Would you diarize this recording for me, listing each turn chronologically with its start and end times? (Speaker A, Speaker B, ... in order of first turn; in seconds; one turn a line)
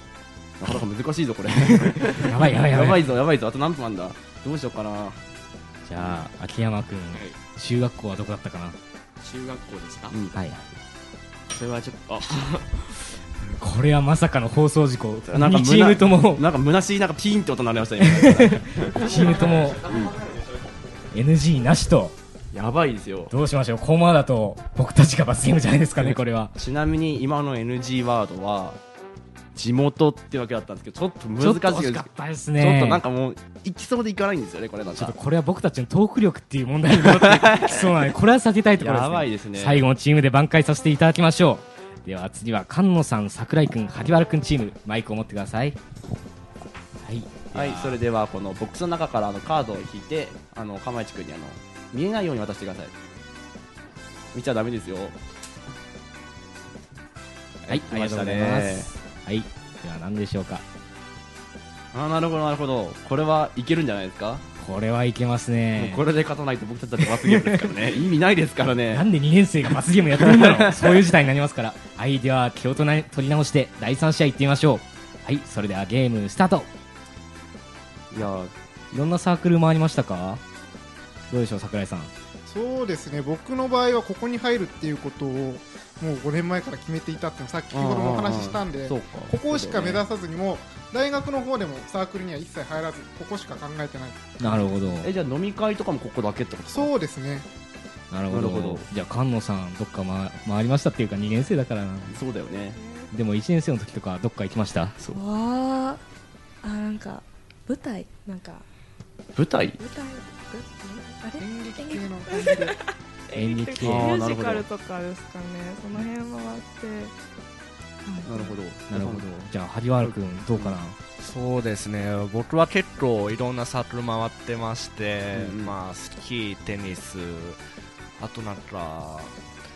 Speaker A: 0.6-5.2
Speaker B: 2.1-3.1
Speaker B: 5.9-8.8
Speaker C: 9.2-10.2
Speaker B: 10.3-10.6
Speaker C: 11.5-13.0
Speaker B: 13.6-16.4
Speaker A: 15.3-20.2
Speaker B: 18.0-19.9
Speaker B: 21.1-22.1
Speaker A: 22.5-23.3
Speaker B: 23.3-26.5
Speaker A: 26.0-28.8
Speaker A: 29.6-35.1
Speaker B: 31.4-33.0
Speaker B: 35.0-45.8
Speaker A: 37.0-37.9
Speaker A: 38.8-39.8
Speaker B: 47.0-48.0
Speaker A: 47.5-52.9
Speaker A: 54.3-55.2
Speaker A: 57.6-58.9
Speaker B: 57.7-60.6
Speaker A: 61.9-64.5
Speaker B: 64.6-66.0
Speaker A: 65.8-69.0
Speaker B: 67.3-67.6
Speaker B: 68.9-76.7
Speaker A: 70.2-71.0
Speaker A: 78.1-78.5
Speaker B: 78.9-80.4
Speaker B: 81.3-82.1
Speaker D: 82.5-94.3
Speaker A: 87.7-90.0
Speaker B: 94.4-95.1
Speaker A: 95.0-96.9
Speaker D: 96.7-97.5
Speaker B: 98.1-102.1
Speaker A: 98.3-98.8
Speaker A: 102.1-102.8
Speaker E: 102.8-103.1
Speaker B: 103.1-105.0
Speaker E: 105.1-106.0
Speaker E: 106.6-108.7
Speaker A: 109.3-109.8
Speaker E: 109.8-117.1
Speaker D: 111.4-112.7
Speaker B: 113.3-114.1
Speaker A: 113.8-114.7
Speaker E: 118.0-118.6
Speaker A: 118.2-119.3
Speaker B: 118.9-121.0
Speaker A: 120.0-120.8
Speaker F: 121.2-127.6
Speaker A: 125.3-125.8
Speaker F: 128.2-129.3